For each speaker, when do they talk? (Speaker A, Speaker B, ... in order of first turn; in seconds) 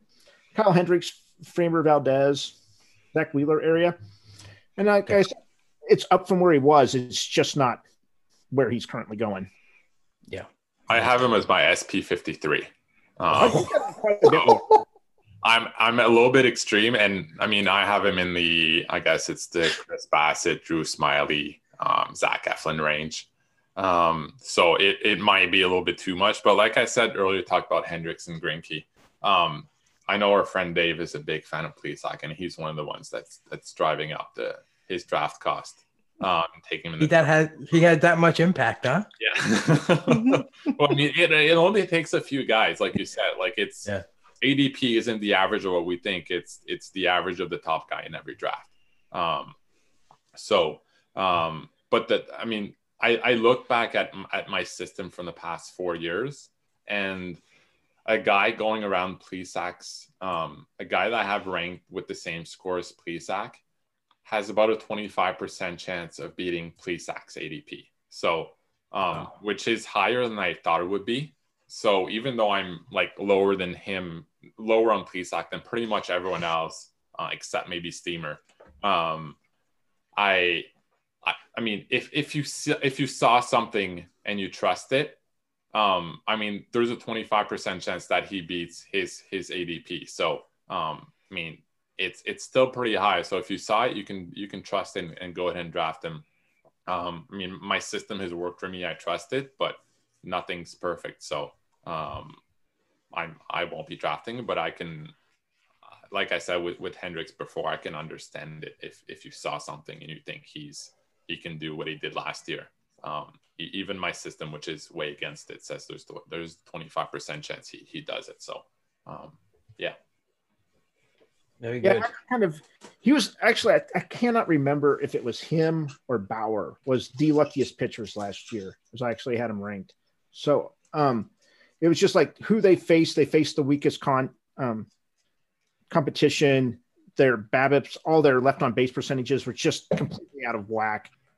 Speaker A: 0.5-2.6, 3.1-4.0, 4.8-7.8, 8.5-9.5, 13.3-14.7, 121.8-131.3, 131.8-134.9, 135.9-141.1
Speaker B: 10.9-12.7, 13.2-13.7, 14.3-14.6, 15.4-37.1, 39.2-43.9, 44.4-49.5, 50.3-57.4, 58.0-63.6, 64.2-79.4, 80.2-80.7, 81.2-85.2, 85.7-96.2, 96.9-102.4, 103.1-105.1, 106.1-119.9
Speaker C: 37.0-39.1, 121.6-122.1